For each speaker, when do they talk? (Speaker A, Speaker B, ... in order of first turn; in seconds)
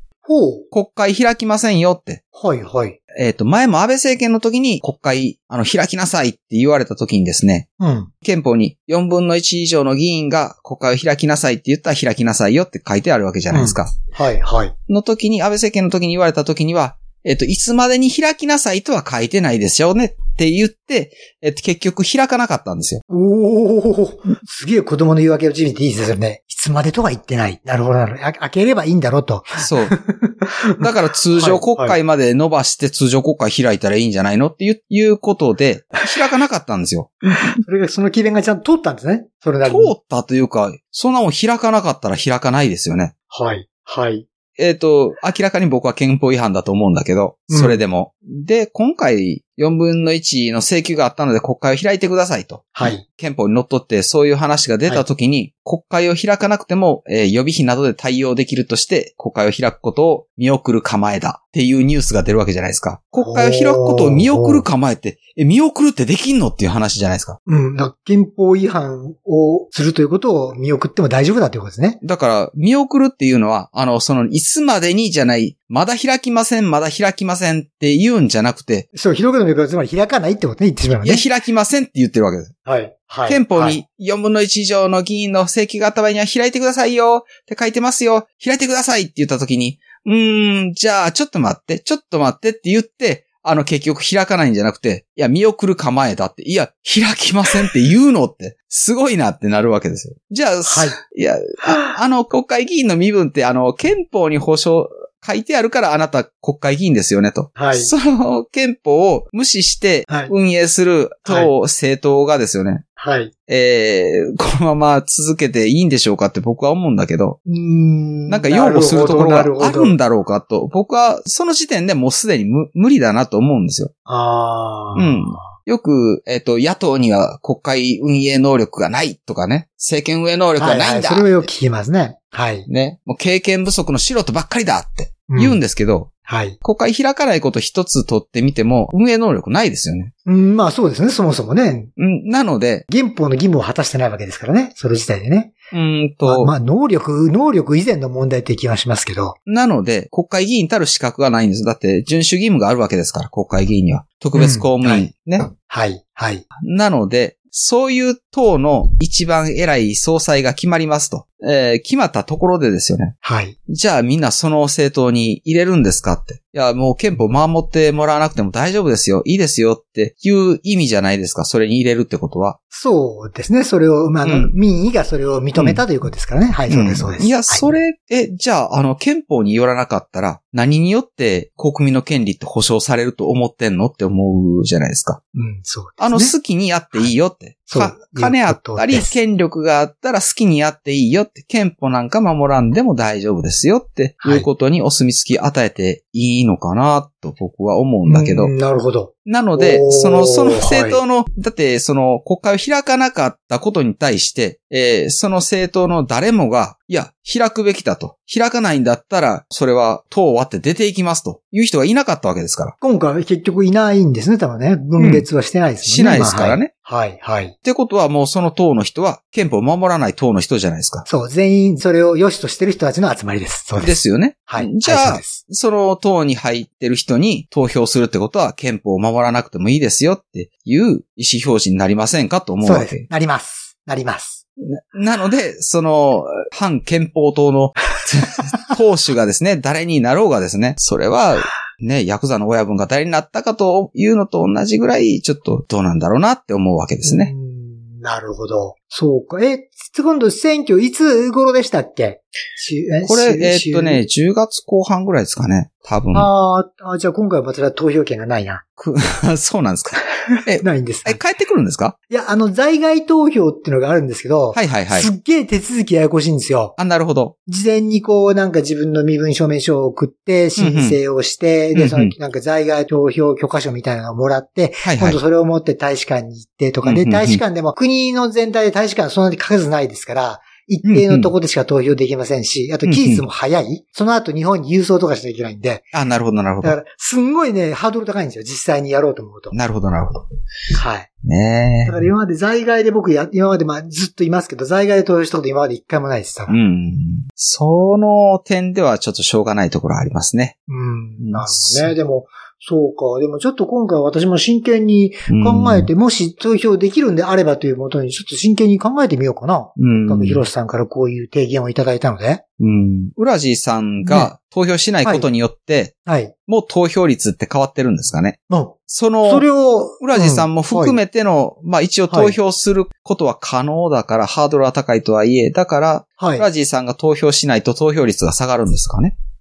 Speaker A: 0.2-0.7, 2.3-3.0, 7.8-8.1, 13.5-14.7, 23.1-32.0, 37.3-39.9, 43.3-44.2, 47.5-47.8, 52.8-53.0, 63.2-64.6, 67.5-72.0, 78.9-81.2, 82.7-83.8, 100.7-101.0, 101.6-101.9, 107.6-107.9, 111.3-111.5, 113.0-113.3, 117.5-120.0, 124.1-125.5, 130.6-132.7, 135.3-135.6, 136.3-136.6, 140.3-141.9, 142.9-145.5, 146.2-149.4, 154.3-156.4, 163.2-163.6, 172.7-177.7, 185.3-186.3, 187.7-189.2, 194.2-194.5, 198.1-201.0, 212.8-217.5, 221.1-225.4, 232.6-234.4, 247.0-254.0, 256.1-258.6, 260.6-261.2, 262.1-266.8, 267.5-285.9, 286.6-289.6, 290.7-291.1, 291.9-296.6, 300.7-312.4, 314.1-314.3, 316.1-316.3, 318.5-321.0, 322.1-322.4, 326.2-326.5
Speaker B: 0.7-2.2, 3.1-7.7, 8.2-13.9, 14.9-23.0, 29.6-29.9, 30.8-37.2, 39.6-43.1, 44.6-67.4, 72.0-78.9, 81.0-82.5, 83.3-112.8, 113.5-117.4, 118.3-123.9, 125.0-131.5, 132.7-136.1, 136.6-140.1, 142.0-142.9, 145.7-146.5, 149.5-155.5, 156.6-163.2, 163.7-172.6, 174.2-174.5, 175.6-175.8, 176.7-185.2, 186.0-198.5, 199.3-212.8, 215.0-215.3, 215.8-216.7, 217.6-221.1, 223.8-233.0, 234.6-247.3, 253.0-256.3, 258.8-261.9, 264.5-265.1, 266.8-267.4, 270.6-271.0, 271.8-272.1, 274.8-275.2, 276.8-277.4, 280.9-281.3, 282.9-283.2, 285.9-286.8, 289.5-290.2, 291.2-292.1, 296.5-300.6, 301.2-301.9, 305.3-305.9, 309.8-310.4, 312.6-315.9, 316.5-319.5, 320.0-329.1